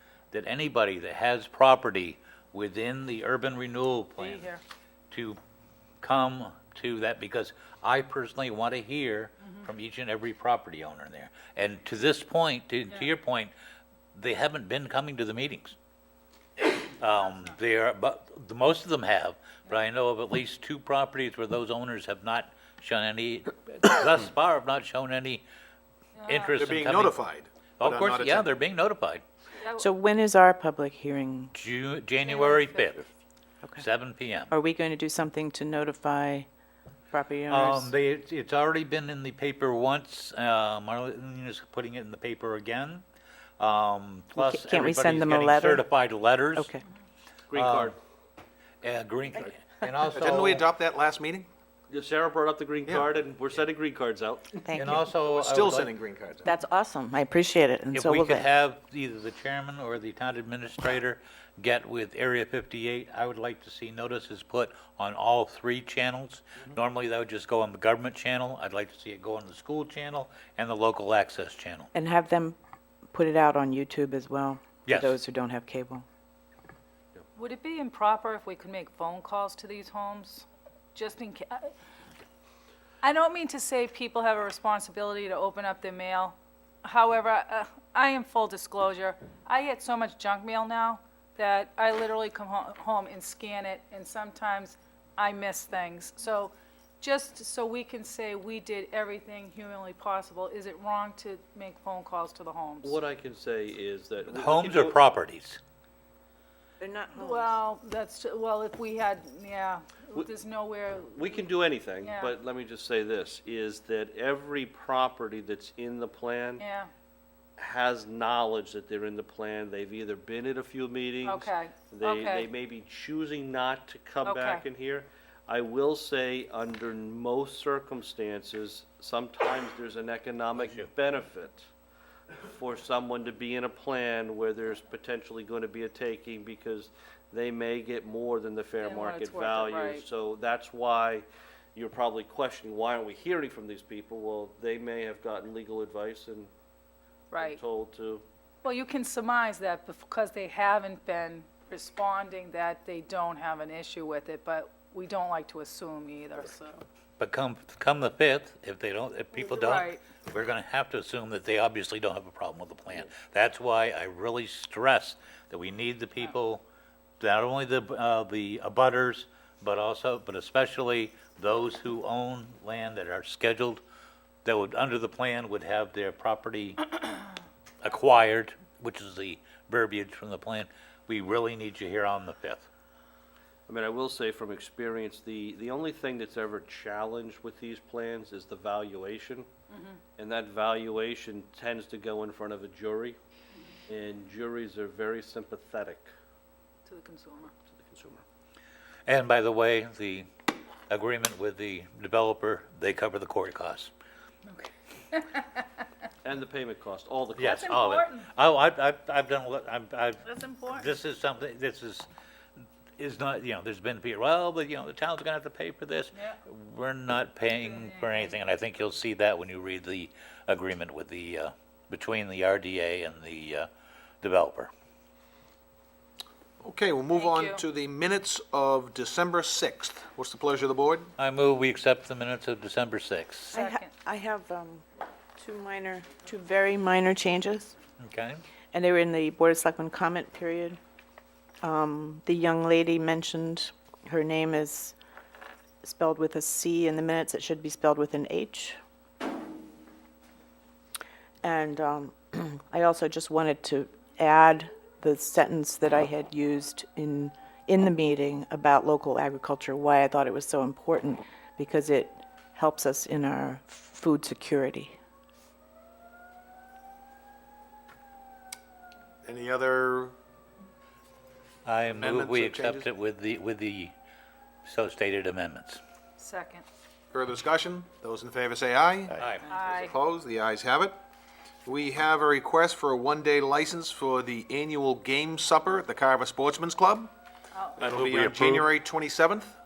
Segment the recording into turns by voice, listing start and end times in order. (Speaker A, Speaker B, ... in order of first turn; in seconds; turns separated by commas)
Speaker A: 0.3-4.5, Speaker B: 4.2-4.6, Speaker A: 5.1-5.4, Speaker A: 6.0-13.5, Speaker A: 14.1-15.8, Speaker A: 16.6-25.4, Speaker B: 17.1-17.6, Speaker B: 26.2-26.6, Speaker A: 26.3-27.2, Speaker C: 26.6-28.5, Speaker A: 27.8-29.2, Speaker B: 29.6-29.9, Speaker D: 29.8-31.5, Speaker A: 31.5-33.1, Speaker B: 32.2-32.9, Speaker A: 33.8-34.5, Speaker D: 34.5-36.5, Speaker D: 37.1-37.9, Speaker A: 37.5-43.0, Speaker A: 43.6-46.7, Speaker D: 44.4-45.9, Speaker D: 46.5-46.8, Speaker E: 47.5-48.0, Speaker A: 47.5-48.0, Speaker A: 48.8-50.6, Speaker C: 50.1-51.5, Speaker E: 51.9-54.6, Speaker D: 54.6-55.1, Speaker A: 54.7-55.9, Speaker C: 55.2-56.5, Speaker D: 56.5-58.5, Speaker A: 57.9-71.9, Speaker D: 71.9-72.6, Speaker D: 73.1-76.0, Speaker A: 74.9-75.2, Speaker B: 77.4-81.7, Speaker B: 83.0-103.0, Speaker E: 102.8-105.0, Speaker A: 104.3-105.6, Speaker D: 106.8-107.5, Speaker B: 107.2-111.5, Speaker E: 111.2-116.6, Speaker B: 112.0-112.3, Speaker B: 116.6-116.9, Speaker E: 117.6-131.7, Speaker B: 121.2-122.5, Speaker B: 124.2-124.6, Speaker A: 130.6-130.9, Speaker E: 132.4-146.5, Speaker B: 138.8-140.1, Speaker B: 147.3-147.6, Speaker E: 147.4-148.2, Speaker B: 148.6-156.8, Speaker A: 157.2-166.6, Speaker B: 159.3-160.0, Speaker A: 167.2-173.8, Speaker A: 174.4-176.9, Speaker A: 177.8-182.7, Speaker E: 183.7-189.5, Speaker B: 189.7-190.0, Speaker E: 190.2-193.2, Speaker E: 193.9-196.1, Speaker B: 196.9-197.5, Speaker E: 197.7-198.2, Speaker A: 199.1-200.3, Speaker A: 200.9-203.9, Speaker B: 204.5-205.8, Speaker E: 206.2-207.7, Speaker A: 207.4-212.1, Speaker B: 207.6-208.3, Speaker B: 210.2-210.9, Speaker A: 213.0-223.7, Speaker B: 216.1-216.4, Speaker B: 217.5-218.3, Speaker A: 224.2-224.7, Speaker C: 226.6-231.1, Speaker B: 227.1-227.6, Speaker A: 231.2-233.6, Speaker B: 233.5-233.9, Speaker D: 233.5-234.8, Speaker D: 235.4-237.8, Speaker A: 238.0-238.4, Speaker D: 238.7-240.8, Speaker D: 241.6-244.9, Speaker D: 245.8-248.8, Speaker D: 251.4-265.0, Speaker C: 269.2-270.1, Speaker A: 271.6-273.9, Speaker C: 272.0-272.9, Speaker A: 274.6-275.8, Speaker B: 276.2-276.6, Speaker C: 277.1-281.0, Speaker A: 279.2-279.5, Speaker B: 279.4-279.9, Speaker C: 281.6-287.1, Speaker B: 287.5-287.9, Speaker C: 287.8-289.5, Speaker A: 287.9-288.7